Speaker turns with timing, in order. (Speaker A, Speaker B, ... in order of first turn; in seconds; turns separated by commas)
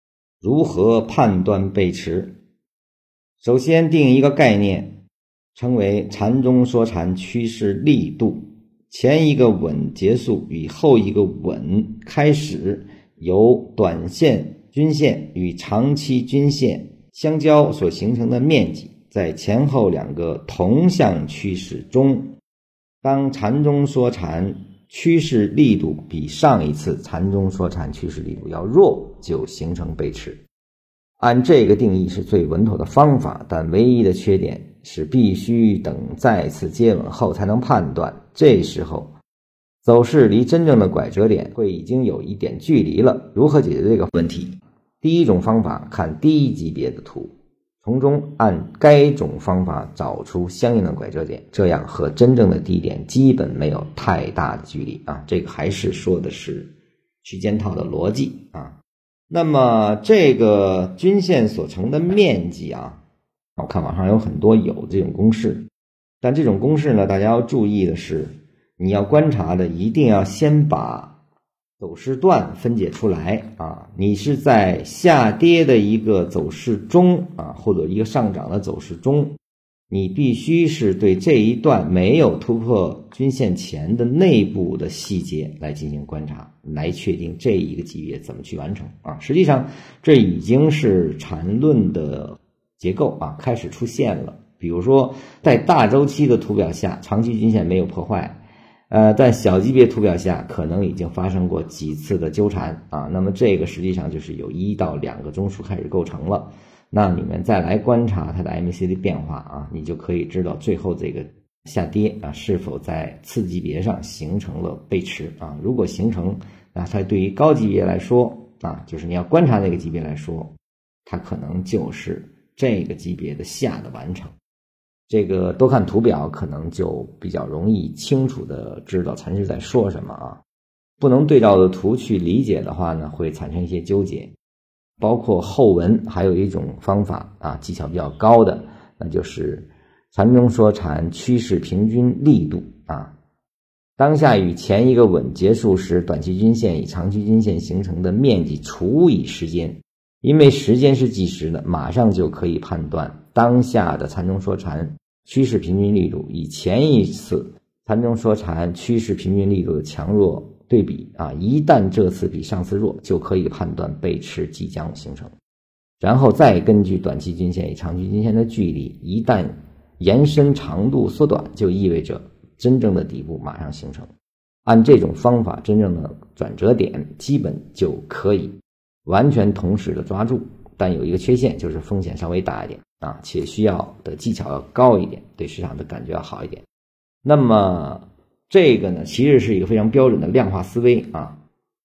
Speaker A: 0.4-2.3, Speaker A: 3.4-5.0, Speaker A: 5.5-22.3, Speaker A: 23.0-30.4, Speaker A: 31.2-39.1, Speaker A: 39.8-56.7, Speaker A: 57.2-58.8, Speaker A: 59.3-63.0, Speaker A: 63.6-65.7, Speaker A: 66.2-71.1, Speaker A: 71.8-79.3, Speaker A: 79.9-98.4, Speaker A: 98.9-120.5, Speaker A: 121.0-124.3, Speaker A: 125.1-130.4, Speaker A: 131.0-134.3, Speaker A: 135.0-143.1, Speaker A: 144.0-165.3, Speaker A: 166.0-174.1, Speaker A: 174.6-186.6, Speaker A: 187.2-191.4